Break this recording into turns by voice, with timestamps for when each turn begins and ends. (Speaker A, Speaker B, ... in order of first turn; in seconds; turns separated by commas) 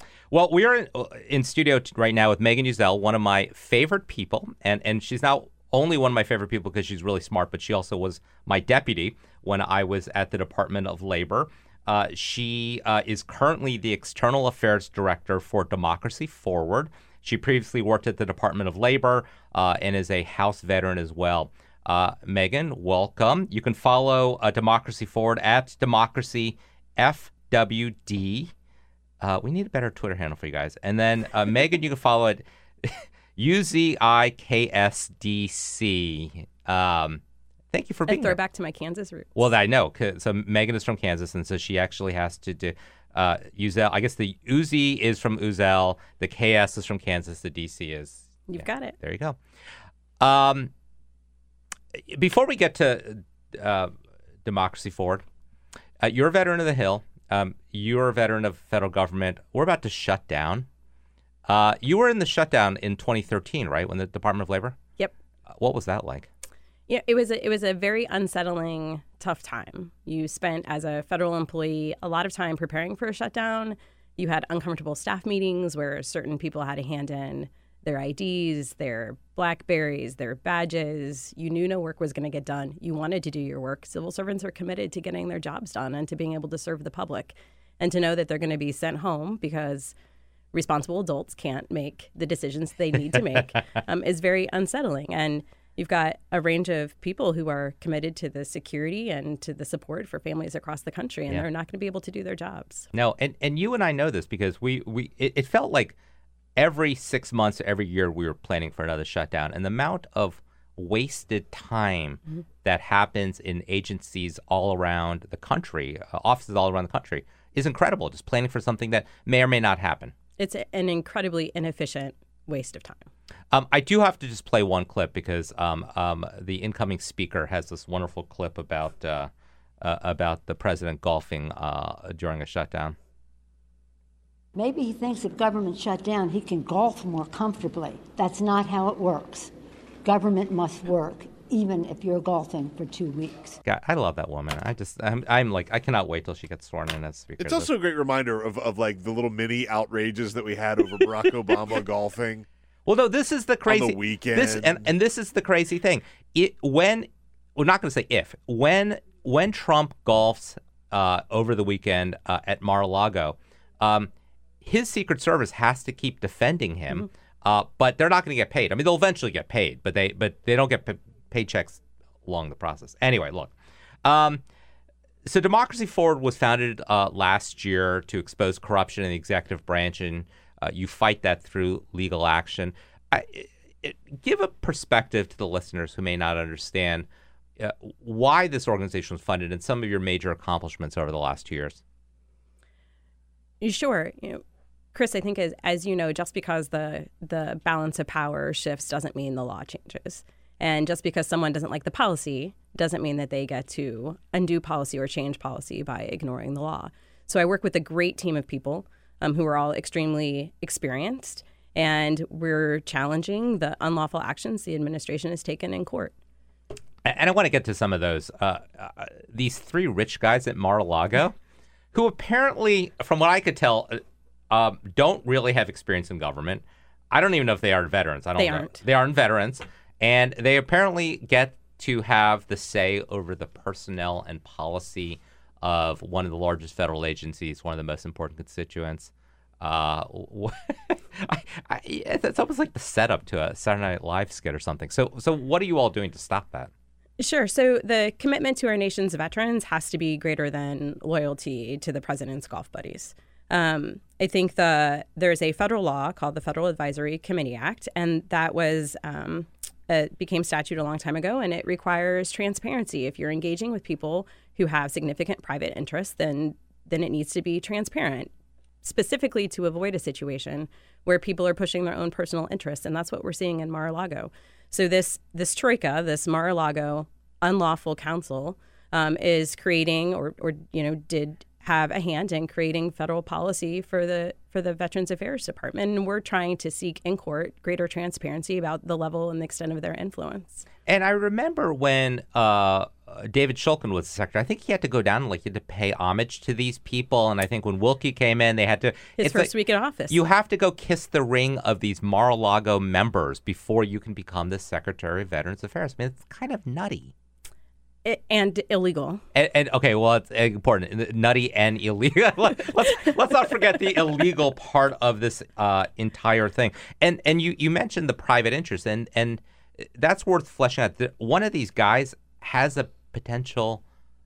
Speaker A: 0.3-28.5, Speaker A: 29.2-38.4, Speaker B: 38.1-39.3, Speaker A: 39.4-49.4, Speaker B: 48.5-48.9, Speaker A: 50.2-50.7, Speaker A: 51.9-53.9, Speaker A: 54.4-55.2, Speaker A: 56.0-60.7, Speaker A: 61.5-64.8, Speaker A: 65.5-66.3, Speaker B: 66.9-89.9, Speaker B: 90.5-102.8, Speaker A: 102.9-106.0, Speaker A: 106.6-120.1, Speaker B: 120.4-123.1, Speaker A: 123.5-132.9, Speaker C: 134.5-139.5, Speaker C: 140.0-143.6, Speaker A: 143.6-147.7, Speaker D: 147.4-152.4, Speaker A: 152.9-164.1, Speaker D: 153.7-154.9, Speaker A: 164.6-173.5, Speaker A: 174.0-174.4, Speaker A: 175.2-187.1, Speaker A: 187.6-191.8, Speaker B: 193.6-194.4, Speaker B: 194.9-216.1, Speaker A: 217.0-221.3, Speaker A: 221.9-246.7, Speaker B: 228.4-228.8, Speaker B: 247.2-268.3, Speaker B: 268.8-290.6, Speaker A: 290.9-299.5, Speaker B: 299.2-300.1, Speaker A: 300.1-307.1, Speaker B: 308.1-309.2, Speaker A: 309.3-323.8